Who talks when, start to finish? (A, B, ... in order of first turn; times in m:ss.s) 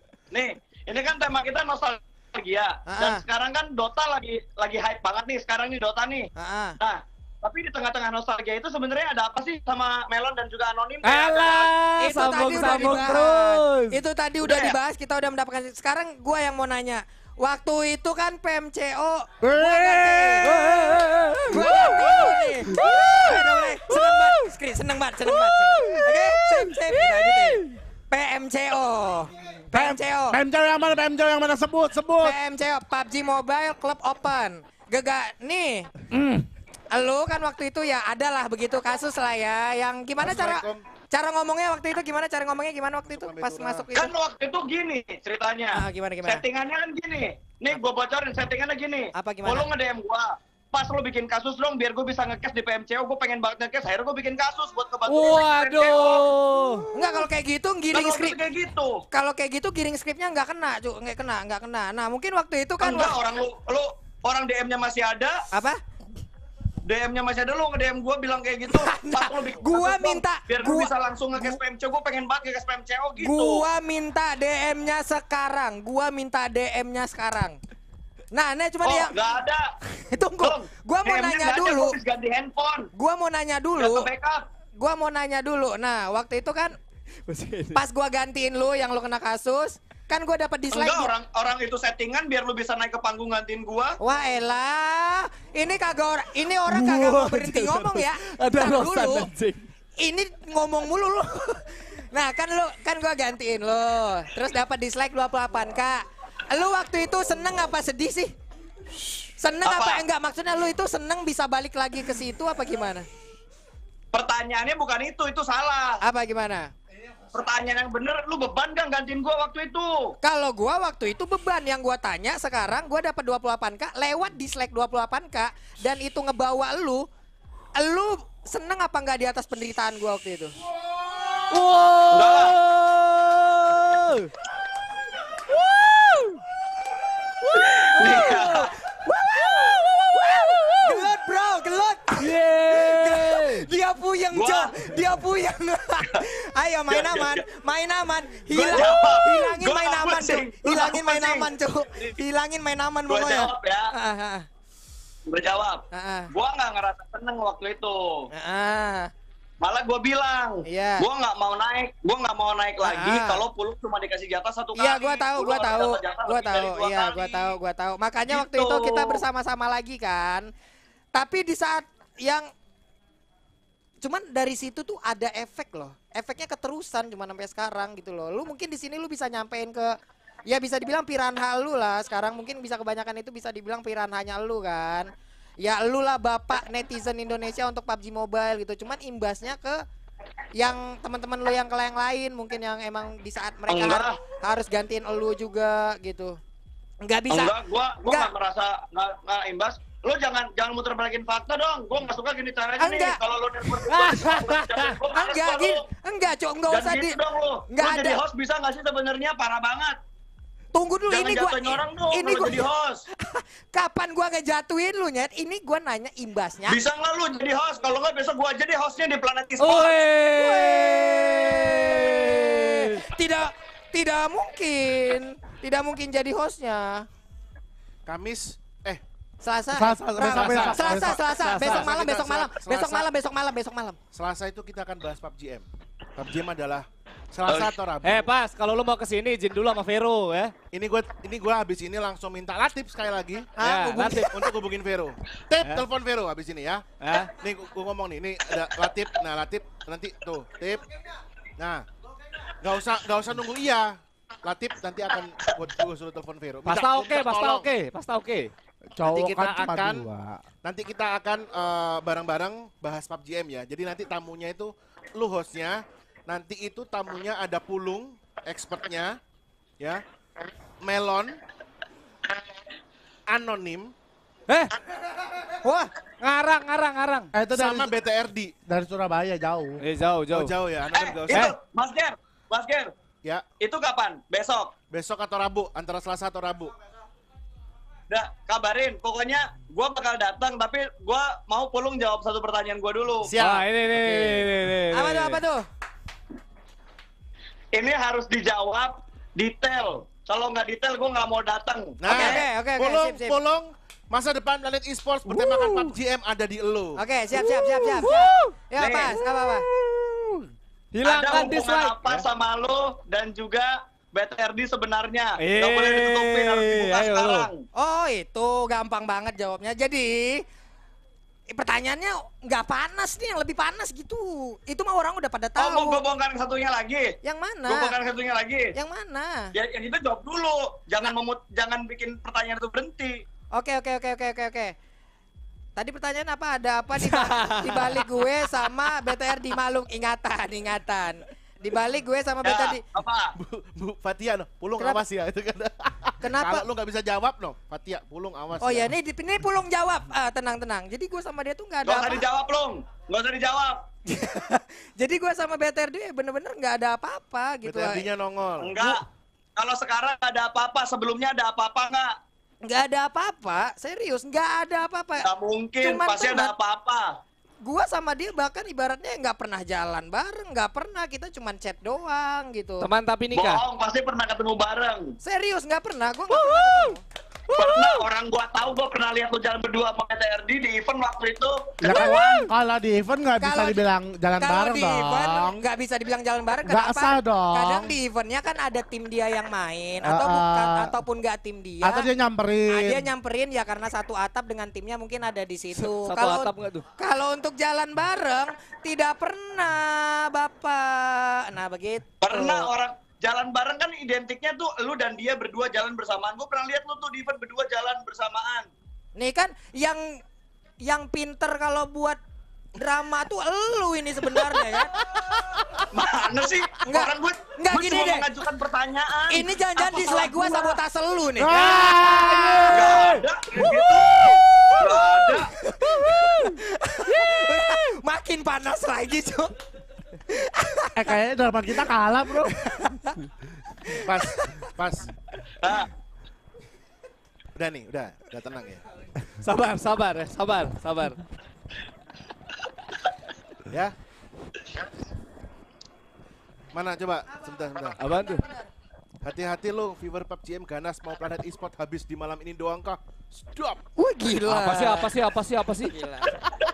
0:00.3-0:11.7 A
0:02.9-0:03.2 B
0:06.4-0:06.8 B
0:11.0-0:14.0 C
0:12.0-0:20.5 B
0:14.5-0:14.8 A
0:19.4-0:21.0 D
0:20.4-0:22.4 C
0:21.5-0:30.4 B
0:21.7-0:22.1 D
0:22.7-0:23.4 D
0:29.7-0:32.4 D
0:32.2-0:35.9 B
0:36.1-0:36.5 D
0:36.9-0:44.1 B
0:40.2-0:40.8 E
0:43.1-0:43.9 E
0:43.9-0:56.3 A
0:45.7-0:46.4 B
0:49.2-0:49.7 B
0:55.1-0:56.9 C
0:56.9-0:58.4 B
0:57.9-0:59.0 A
0:59.1-1:03.2 B
1:02.8-1:05.4 A
1:05.5-1:05.8 B
1:06.8-1:13.6 A
1:08.7-1:11.6 B
1:13.2-1:17.6 B
1:18.3-1:19.2 B
1:18.8-1:19.7 A
1:20.1-1:22.0 B
1:20.4-1:22.9 A
1:23.0-1:24.1 B
1:23.8-1:24.5 A
1:24.8-1:26.8 B
1:27.3-1:27.8 C
1:27.7-1:31.1 B
1:30.7-1:34.0 A
1:34.0-1:39.3 B
1:36.7-1:39.7 C
1:40.0-1:48.3 B
1:49.3-1:53.1 B
1:49.6-1:50.0 A
1:54.1-1:56.0 A
1:56.0-1:56.7 B
1:57.3-2:00.1 A
2:00.2-2:07.0 B
2:07.8-2:10.5 B
2:11.5-2:14.3 C
2:12.1-2:12.5 A
2:15.5-2:16.4 C
2:17.4-2:18.7 C
2:17.6-2:18.7 A
2:19.0-2:34.5 B
2:19.4-2:21.0 C
2:22.2-2:23.7 C
2:24.3-2:24.8 A
2:26.9-2:27.4 A
2:28.5-2:32.1 A
2:33.1-2:33.9 A
2:35.3-2:38.3 A
2:35.9-2:36.3 B
2:38.3-2:39.1 B
2:39.6-2:47.6 A
2:40.7-2:41.1 B
2:42.8-2:43.5 B
2:44.8-2:50.5 B
2:48.3-2:49.2 A
2:51.1-2:52.5 B
2:54.0-2:59.9 B
3:00.5-3:05.1 B
3:05.6-3:09.8 B
3:10.6-3:16.4 B
3:13.7-3:14.2 A
3:17.0-3:17.5 B
3:17.3-3:25.9 A
3:22.8-3:23.2 B
3:23.8-3:25.0 C
3:25.1-3:27.2 B
3:26.7-3:30.0 A
3:27.7-3:28.2 B
3:30.7-3:32.7 B
3:31.1-3:33.0 A
3:33.2-3:36.8 B
3:36.7-3:40.0 A
3:39.6-3:43.0 C
3:40.3-3:47.0 B
3:48.1-3:49.0 E
3:49.4-3:54.0 B
3:49.7-3:51.3 D
3:50.2-3:53.1 E
3:51.3-3:51.9 C
3:54.1-3:58.3 E
3:57.5-3:57.7 A
3:58.0-4:00.5 C
4:00.7-4:03.5 E
4:03.6-4:04.4 B
4:03.6-4:04.3 C
4:04.3-4:10.8 E
4:07.0-4:07.3 C
4:11.6-4:11.8 E
4:12.5-4:17.7 E
4:16.6-4:18.5 C
4:19.0-4:20.4 D
4:19.0-4:20.1 E
4:20.6-4:29.2 E
4:30.8-4:31.4 E
4:33.3-4:33.9 E
4:34.5-4:34.8 C
4:35.6-4:35.9 B
4:36.2-4:37.3 C
4:37.3-4:38.0 D
4:37.5-4:38.6 E
4:38.7-4:39.8 D
4:39.8-4:40.6 C
4:40.3-4:41.5 E
4:40.9-4:42.9 A
4:43.6-4:44.8 A
4:44.9-4:46.8 E
4:48.1-4:53.3 A
4:53.2-4:54.1 E
4:53.4-4:55.4 C
4:54.9-4:55.6 B
4:57.7-5:02.4 A
5:02.0-5:07.0 E
5:02.1-5:03.4 B
5:05.3-5:05.9 C
5:07.0-5:09.7 B
5:07.4-5:08.5 C
5:08.8-5:09.1 A
5:09.2-5:12.3 C
5:11.0-5:17.6 A
5:15.4-5:17.5 C
5:17.8-5:20.4 B
5:21.5-5:26.0 B
5:25.6-5:27.2 A
5:27.2-5:28.0 B
5:27.7-5:28.8 A
5:28.8-5:29.5 B
5:29.5-5:33.2 A
5:33.5-5:34.7 B
5:35.8-5:42.8 B
5:37.0-5:38.0 C
5:42.4-5:43.3 A
5:43.4-5:48.9 E
5:46.2-5:46.7 B
5:48.6-5:52.3 B
5:51.8-5:53.8 A
5:54.1-5:58.1 B
5:57.6-5:58.8 E
5:58.6-5:59.0 A
5:59.6-6:02.2 A
6:02.6-6:05.3 B
6:05.2-6:07.2 A
6:05.8-6:06.5 B
6:07.6-6:12.9 B
6:12.8-6:13.6 C
6:13.3-6:15.2 A
6:15.2-6:17.0 B
6:16.3-6:17.0 C
6:17.5-6:18.0 C
6:17.5-6:21.9 A
6:21.8-6:25.6 D
6:21.9-6:22.5 C
6:23.4-6:23.8 B
6:24.4-6:32.1 B
6:26.6-6:28.0 D
6:30.0-6:30.9 D
6:31.8-6:33.1 D
6:32.7-6:42.7 B
6:35.7-6:36.8 C
6:42.2-6:48.7 A
6:49.2-6:50.2 B
6:50.8-6:52.2 B
6:52.8-6:55.0 B
6:55.9-7:00.6 A
6:56.8-6:58.3 B
6:59.3-7:03.2 B
7:01.4-7:03.1 D
7:01.5-7:03.2 C
7:02.7-7:04.2 A
7:03.7-7:04.3 B
7:04.8-7:05.5 A
7:05.6-7:09.5 B
7:10.3-7:11.0 B
7:11.0-7:12.6 D
7:12.4-7:13.2 B
7:13.8-7:14.7 B
7:13.9-7:15.1 E
7:15.6-7:15.9 A
7:17.6-7:18.8 E
7:19.4-7:21.2 C
7:23.7-7:24.0 E
7:26.7-7:28.0 E
7:27.9-7:28.7 B
7:28.0-7:28.4 C
7:29.2-7:33.8 E
7:34.0-7:35.1 B
7:34.4-7:35.9 C
7:35.9-7:36.4 B